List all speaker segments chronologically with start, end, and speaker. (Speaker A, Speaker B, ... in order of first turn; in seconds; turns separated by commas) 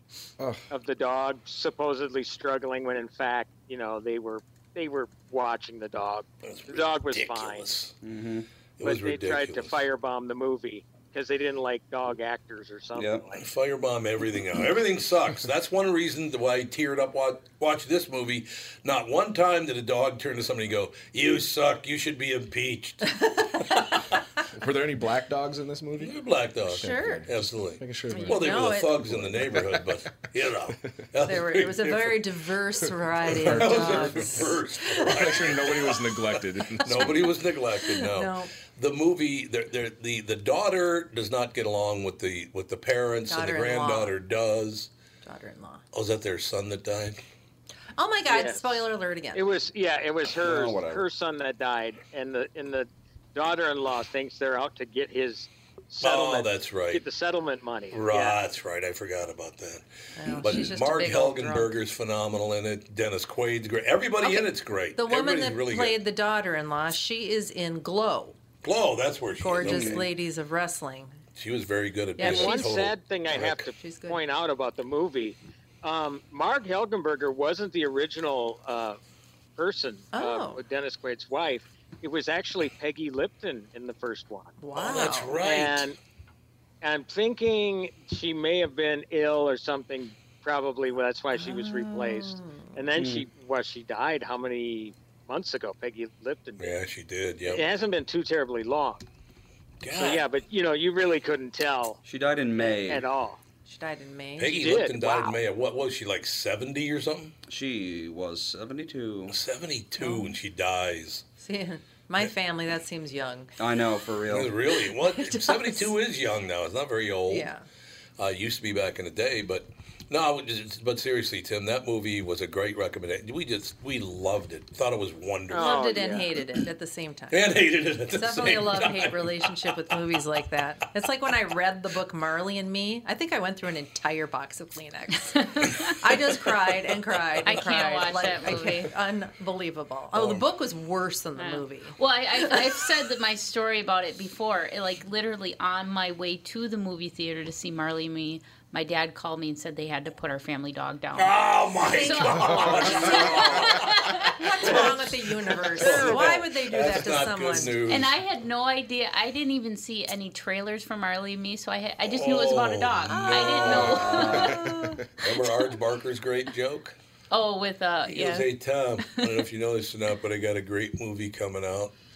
Speaker A: 0.7-7.8, Speaker B: 6.5-7.9, Speaker C: 8.0-8.5, Speaker B: 8.8-9.8, Speaker A: 8.8-13.4, Speaker C: 12.9-13.3, Speaker B: 13.4-23.8, Speaker D: 24.6-30.0, Speaker B: 26.0-32.3, Speaker E: 26.8-27.3, Speaker E: 28.1-28.9, Speaker E: 31.3-35.1, Speaker B: 33.3-36.2, Speaker D: 33.4-34.4, Speaker D: 35.0-37.2, Speaker B: 36.8-44.9, Speaker E: 36.8-38.5, Speaker E: 43.3-44.1, Speaker E: 45.2-45.8, Speaker B: 45.9-47.2, Speaker E: 48.0-49.5, Speaker A: 48.3-48.8, Speaker A: 49.3-58.4, Speaker C: 50.4-51.1, Speaker B: 56.0-57.0, Speaker B: 57.9-59.8, Speaker E: 60.2-61.8, Speaker B: 60.4-66.0, Speaker E: 64.2-68.3, Speaker B: 68.6-70.1, Speaker E: 69.4-71.2, Speaker C: 69.6-70.1, Speaker B: 71.4-73.7, Speaker E: 72.2-72.7, Speaker A: 72.2-79.0, Speaker E: 73.8-74.2, Speaker A: 79.6-84.6, Speaker E: 80.1-80.6, Speaker E: 84.6-85.3, Speaker B: 84.7-85.9, Speaker A: 85.4-86.0, Speaker A: 86.8-96.8, Speaker E: 91.3-92.8, Speaker C: 93.0-93.3, Speaker B: 96.6-97.7, Speaker A: 97.5-99.0, Speaker B: 99.8-100.3, Speaker A: 99.9-102.0, Speaker C: 102.0-103.1, Speaker A: 102.6-103.4, Speaker E: 103.7-104.6, Speaker B: 104.4-107.3, Speaker A: 104.5-105.4, Speaker C: 107.5-109.4, Speaker B: 109.3-111.2, Speaker E: 110.0-110.3, Speaker E: 111.4-113.5, Speaker C: 113.6-114.5, Speaker B: 114.3-117.5, Speaker E: 115.2-115.9, Speaker E: 117.3-117.6, Speaker B: 118.2-125.8, Speaker A: 125.5-126.3, Speaker E: 125.5-127.5, Speaker B: 127.3-129.3, Speaker E: 128.1-142.7, Speaker F: 135.6-135.9, Speaker F: 137.5-138.9, Speaker B: 140.2-140.4, Speaker F: 141.4-151.4, Speaker B: 151.2-158.1, Speaker F: 151.9-154.3, Speaker E: 151.9-153.4, Speaker A: 152.8-153.4, Speaker E: 154.4-157.8, Speaker A: 155.8-156.2, Speaker F: 157.9-164.6, Speaker B: 162.0-164.4, Speaker E: 163.1-165.0, Speaker C: 164.0-164.4, Speaker D: 164.4-165.1, Speaker B: 165.2-166.9, Speaker F: 167.3-168.5, Speaker B: 168.1-171.9